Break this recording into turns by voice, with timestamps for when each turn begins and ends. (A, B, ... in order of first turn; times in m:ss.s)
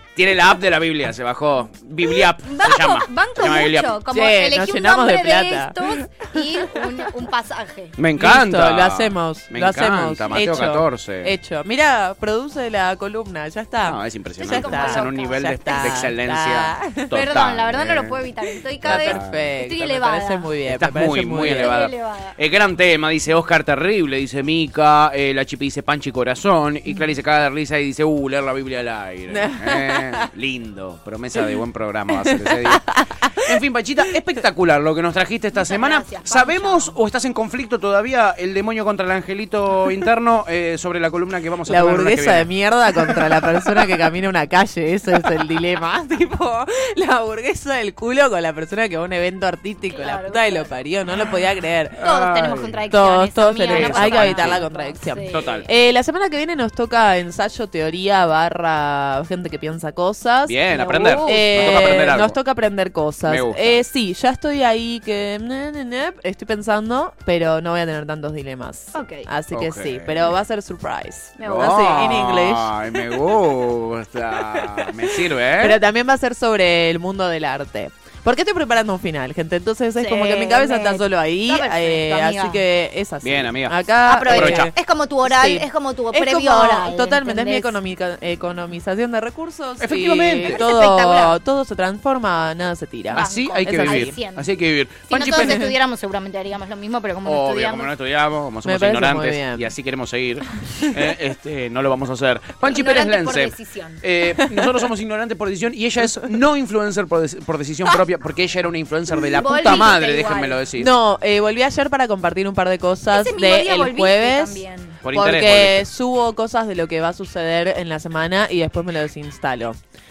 0:00.2-0:04.0 A
0:02.0-0:08.0 B
0:04.1-0:06.9 C
0:08.0-0:11.3 A
0:08.2-0:17.1 C
0:13.8-0:18.3 A
0:14.4-0:16.0 B
0:17.1-0:20.5 B
0:18.8-0:19.4 A
0:18.8-0:21.7 C
0:20.7-0:43.7 A
0:21.5-0:22.4 B
0:29.3-0:30.3 C
0:32.2-0:33.5 C
0:35.5-0:37.0 B
0:41.7-0:52.0 C
0:49.9-0:50.7 B
0:52.0-0:52.8 A
0:52.0-0:55.6 B
0:52.9-1:00.6 C
0:53.7-0:54.6 A
0:55.3-0:55.7 A
1:00.4-1:02.4 A
1:00.7-1:01.9 B
1:01.2-1:12.7 C
1:03.2-1:03.8 A
1:08.9-1:09.3 B
1:09.5-1:10.4 A
1:11.4-1:12.2 B
1:11.4-1:15.8 A
1:15.6-1:34.1 C
1:20.0-1:22.6 B
1:23.2-1:24.7 A
1:24.0-1:27.7 B
1:29.8-1:30.6 A
1:30.4-1:31.4 B
1:33.1-1:35.7 A
1:33.1-1:34.5 B
1:35.1-1:37.9 B
1:35.3-1:35.7 C
1:37.2-1:50.9 A
1:38.6-1:39.7 C
1:42.6-1:44.0 B
1:49.2-1:50.6 B
1:50.8-1:59.8 C
1:53.1-1:55.0 B
1:55.0-1:55.8 A